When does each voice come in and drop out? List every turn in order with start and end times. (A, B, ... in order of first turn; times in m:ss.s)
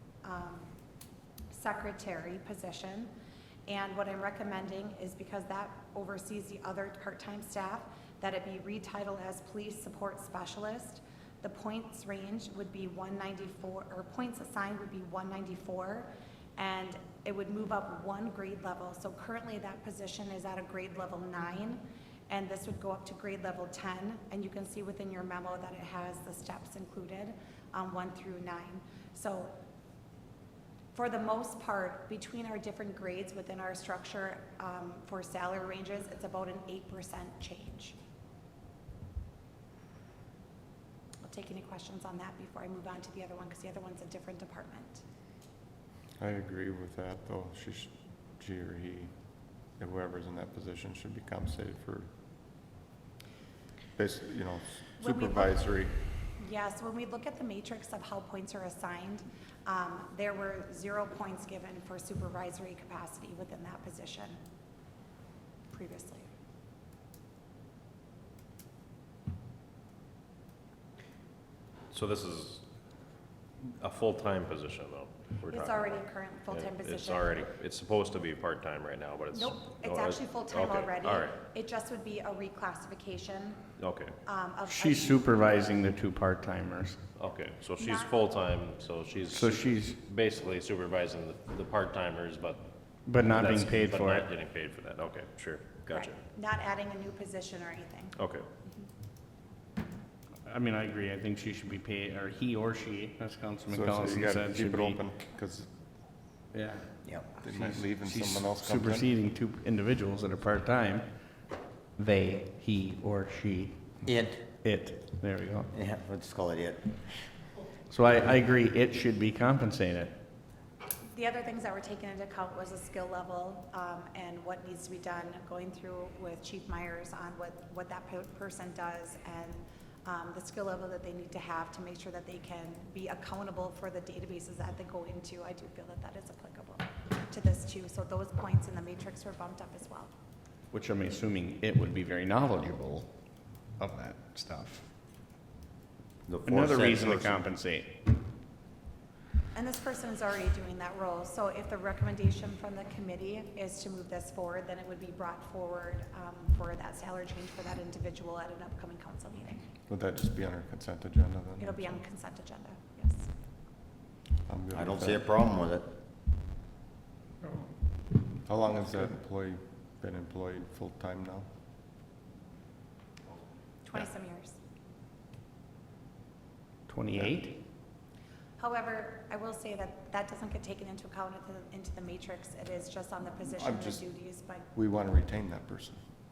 0:00.2-0:00.7 A
0:01.5-0:03.1 A
0:03.7-0:29.5 A
0:31.0-0:38.0 A
0:41.2-0:45.0 A
0:46.2-0:49.1 B
0:49.8-0:52.1 B
0:54.0-0:56.0 B
0:55.0-0:55.6 A
0:56.4-1:04.4 A
1:05.7-1:06.3 A
1:11.9-1:12.6 C
1:13.7-1:21.4 C
1:15.5-1:17.4 A
1:19.3-1:23.7 A
1:23.8-1:24.2 C
1:24.2-1:25.4 A
1:24.7-1:27.0 D
1:27.2-1:36.2 C
1:27.8-1:28.2 A
1:29.3-1:30.0 D
1:33.1-1:34.3 D
1:35.9-1:38.2 A
1:38.2-1:38.5 C
1:40.4-1:45.0 D
1:43.7-1:45.7 B
1:46.5-1:46.9 D
1:47.0-1:47.3 E
1:47.4-1:49.1 B
1:47.5-1:51.4 D
1:52.0-1:54.0 D
1:54.0-1:54.5 E
1:54.6-1:55.7 D
1:55.7-1:57.2 E
1:57.9-2:00.2 D
2:01.1-2:20.1 A
2:20.7-2:23.1 D
2:23.8-2:24.9 D
2:26.3-2:27.4 E
2:26.4-2:28.0 D
2:29.5-2:39.7 A
2:39.9-2:42.0 B
2:41.6-2:43.3 A
2:44.5-2:45.2 B
2:44.7-2:45.9 E
2:48.4-2:51.5 B
2:53.9-2:54.6 A
2:56.9-2:57.6 D
2:58.6-3:04.7 A
3:03.5-3:04.0 B
3:04.7-3:06.0 B